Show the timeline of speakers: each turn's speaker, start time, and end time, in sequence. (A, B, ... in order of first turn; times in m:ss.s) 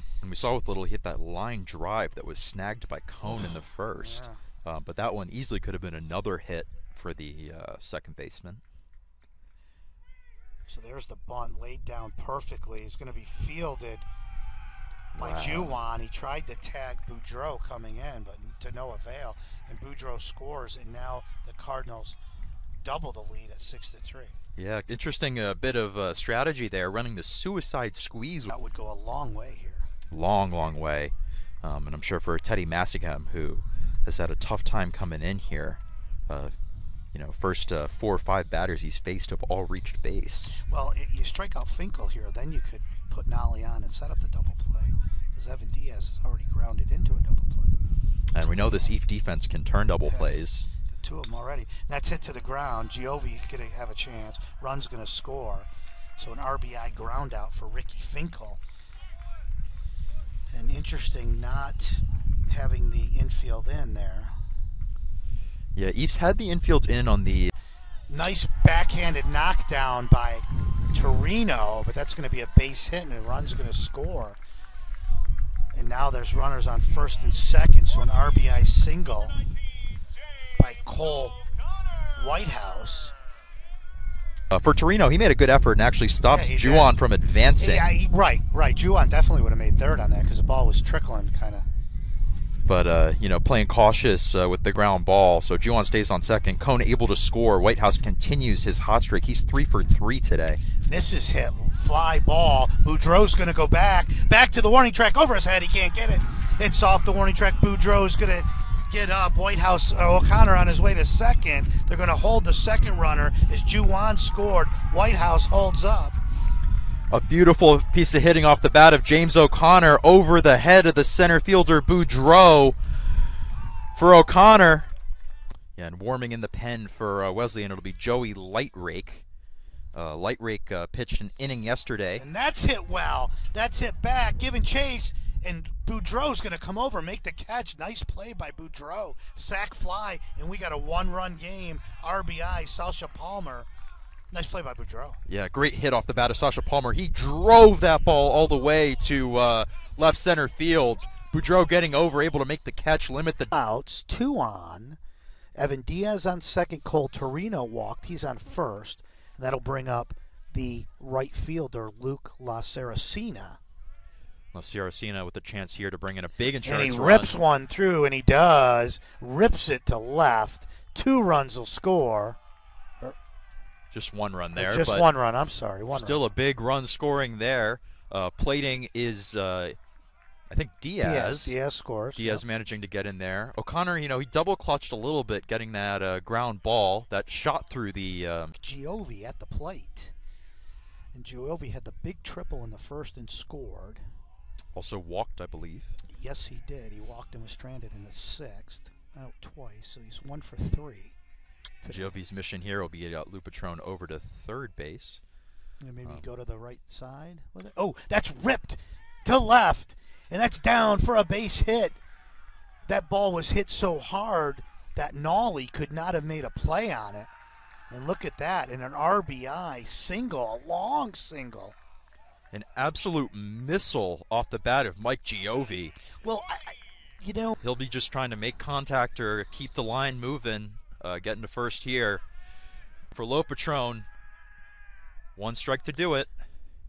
0:00.2-0:08.6 A
0:03.2-0:04.4 B
0:10.7-0:14.0 B
0:15.1-0:15.8 A
0:15.2-0:22.2 B
0:22.8-0:24.4 B
0:24.6-0:28.5 A
0:28.5-0:29.9 B
0:30.1-0:36.5 A
0:37.1-0:40.5 A
0:40.6-0:47.8 B
0:48.3-0:50.7 A
0:48.4-0:49.0 B
0:50.0-0:58.6 B
1:00.5-1:04.3 B
1:05.7-1:07.5 A
1:08.1-1:14.4 B
1:15.7-1:19.4 B
1:20.6-1:21.4 B
1:22.2-1:23.1 B
1:24.5-1:27.9 A
1:26.2-1:27.0 B
1:27.6-1:31.7 B
1:32.6-1:40.6 A
1:40.8-1:56.2 B
1:57.1-2:02.8 A
2:03.9-2:04.9 A
2:05.8-2:09.2 A
2:09.9-2:12.2 A
2:12.2-2:23.7 B
2:24.3-2:25.2 B
2:25.2-2:33.5 A
2:33.5-2:35.0 B
2:35.6-2:43.6 B
2:44.5-2:47.3 A
2:46.6-2:52.4 B
2:53.9-2:55.0 A
2:54.5-2:56.2 B
2:55.9-2:59.8 A
3:00.5-3:01.6 A
3:01.0-3:02.4 B
3:02.2-3:08.5 A
3:08.6-3:10.1 B
3:11.1-3:14.0 B
3:14.7-3:15.9 A
3:16.1-3:21.1 B
3:21.8-3:22.2 B
3:21.9-3:25.2 A
3:25.8-3:32.0 B
3:32.8-3:37.3 B
3:37.9-3:41.8 B
3:42.5-3:46.0 A
3:46.2-3:47.6 B
3:47.6-3:52.2 A
3:53.1-3:54.1 A
3:55.4-3:56.3 A